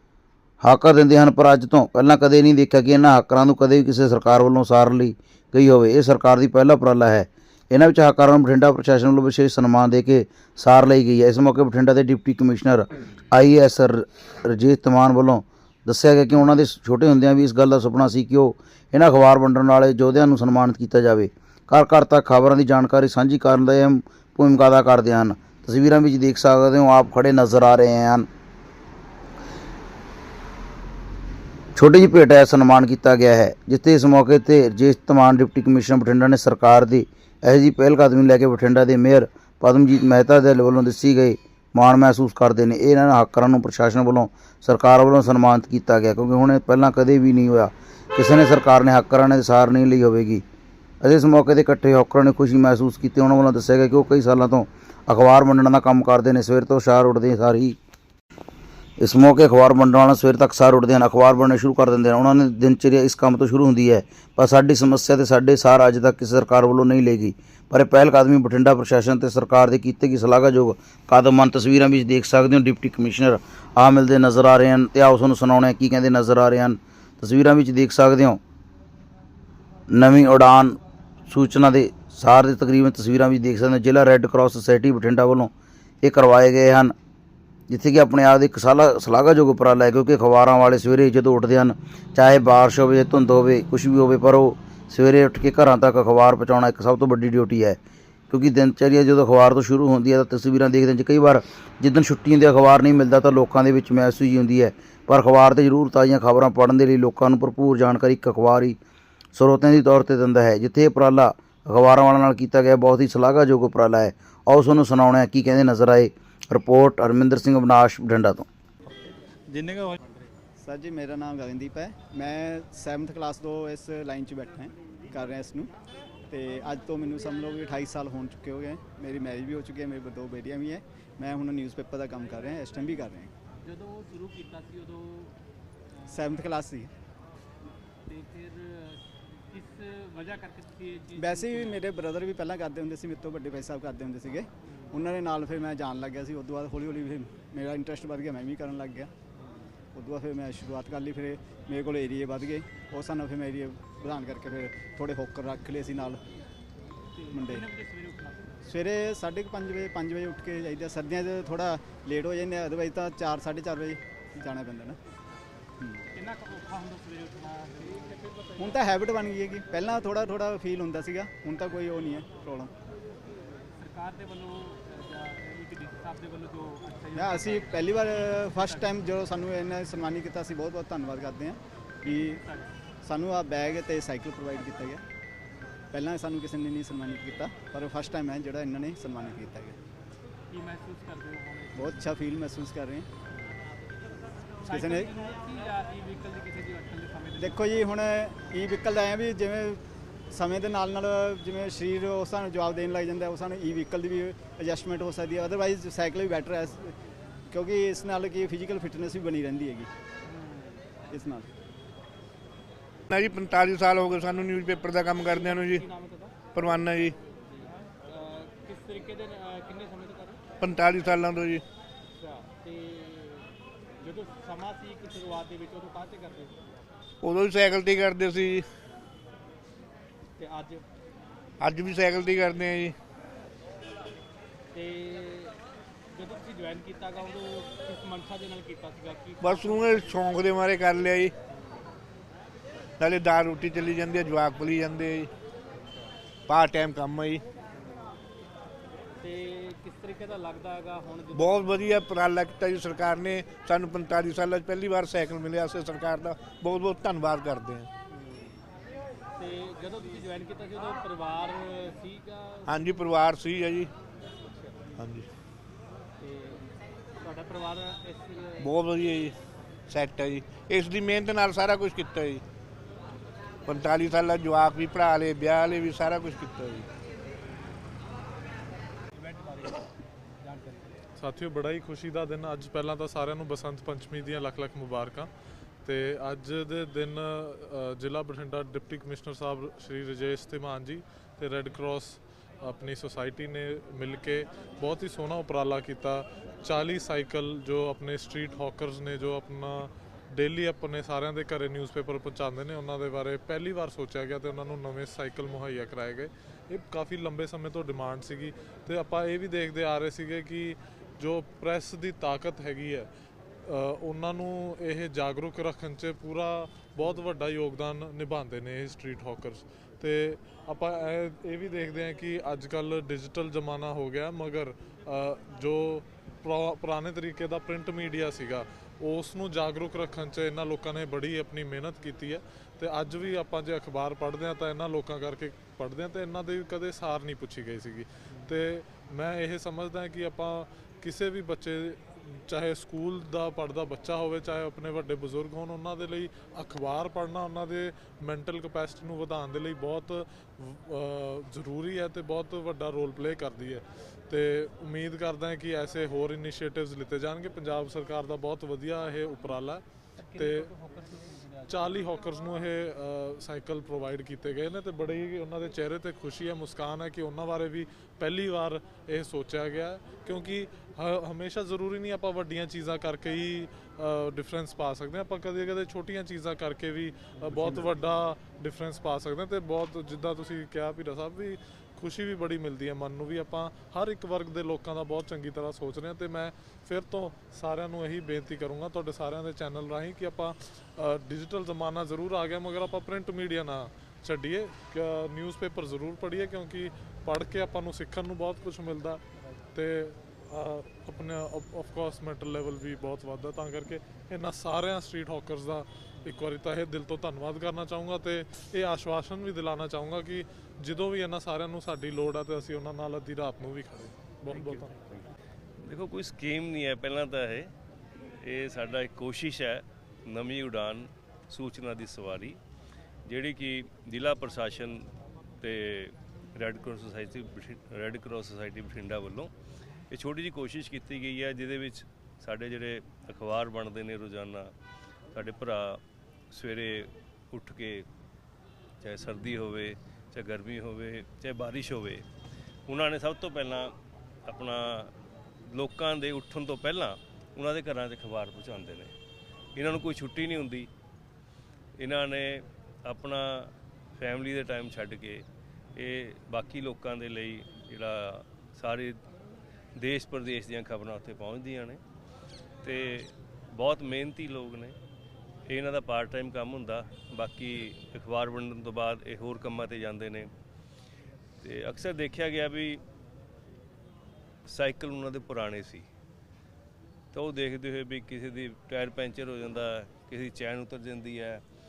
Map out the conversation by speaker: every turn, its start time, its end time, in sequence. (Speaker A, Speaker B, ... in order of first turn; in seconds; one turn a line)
Speaker A: 0.6-28.3
Speaker A: 31.8-50.4
Speaker A: 51.0-57.8
Speaker A: 59.0-78.4
Speaker A: 79.9-85.5
Speaker A: 86.0-86.9
Speaker A: 87.7-97.8
Speaker A: 98.3-108.8
Speaker A: 109.4-118.5
Speaker B: 119.9-120.2
Speaker C: 120.6-125.7
Speaker C: 126.3-133.3
Speaker B: 133.6-135.3
Speaker B: 136.0-136.5
Speaker C: 136.1-136.9
Speaker B: 138.1-141.9
Speaker C: 141.2-149.1
Speaker B: 144.7-145.0
Speaker B: 149.4-149.7
Speaker C: 149.9-156.2
Speaker B: 157.1-158.7
Speaker C: 157.3-157.6
Speaker C: 158.7-165.0
Speaker B: 166.1-168.9
Speaker C: 168.6-172.7
Speaker B: 173.6-179.1
Speaker C: 177.2-182.4
Speaker B: 182.0-182.8
Speaker C: 183.0-185.0
Speaker C: 185.9-189.8
Speaker B: 190.5-192.1
Speaker C: 191.8-193.1
Speaker B: 194.6-197.9
Speaker C: 194.7-195.1
Speaker C: 197.4-199.8
Speaker C: 200.3-206.9
Speaker C: 207.5-209.9
Speaker B: 210.2-211.1
Speaker C: 211.1-211.5
Speaker D: 213.1-215.9
Speaker B: 215.2-220.4
Speaker D: 216.5-217.2
Speaker D: 220.6-221.6
Speaker B: 222.1-226.9
Speaker D: 227.2-228.7
Speaker B: 230.4-230.8
Speaker D: 231.6-233.0
Speaker B: 234.7-235.6
Speaker B: 236.1-240.3
Speaker D: 239.4-241.3
Speaker B: 241.5-241.9
Speaker D: 243.0-245.3
Speaker D: 246.5-247.4
Speaker B: 247.7-248.2
Speaker B: 249.2-252.0
Speaker D: 251.3-257.9
Speaker B: 258.1-258.6
Speaker B: 259.4-262.8
Speaker D: 262.7-263.9
Speaker B: 264.4-264.9
Speaker D: 265.0-265.3
Speaker B: 266.2-266.6
Speaker B: 267.2-268.7
Speaker D: 268.6-272.4
Speaker D: 273.6-276.9
Speaker B: 279.1-281.0
Speaker E: 281.2-285.3
Speaker E: 285.9-313.1
Speaker E: 313.6-360.7
Speaker B: 360.2-362.1
Speaker E: 361.7-399.2
Speaker E: 399.7-414.9
Speaker F: 415.8-417.7
Speaker F: 418.4-422.6
Speaker F: 423.3-425.1
Speaker F: 425.6-429.5
Speaker F: 430.1-434.7
Speaker F: 435.3-436.0
Speaker F: 436.5-438.1
Speaker F: 439.0-442.3
Speaker F: 442.9-443.9
Speaker F: 444.5-445.1
Speaker F: 445.7-449.1
Speaker F: 449.8-450.9
Speaker F: 452.0-455.4
Speaker F: 456.0-459.2
Speaker F: 460.0-462.0
Speaker F: 462.8-465.0
Speaker F: 465.7-470.5
Speaker F: 471.6-473.0
Speaker F: 474.7-476.1
Speaker F: 477.3-481.6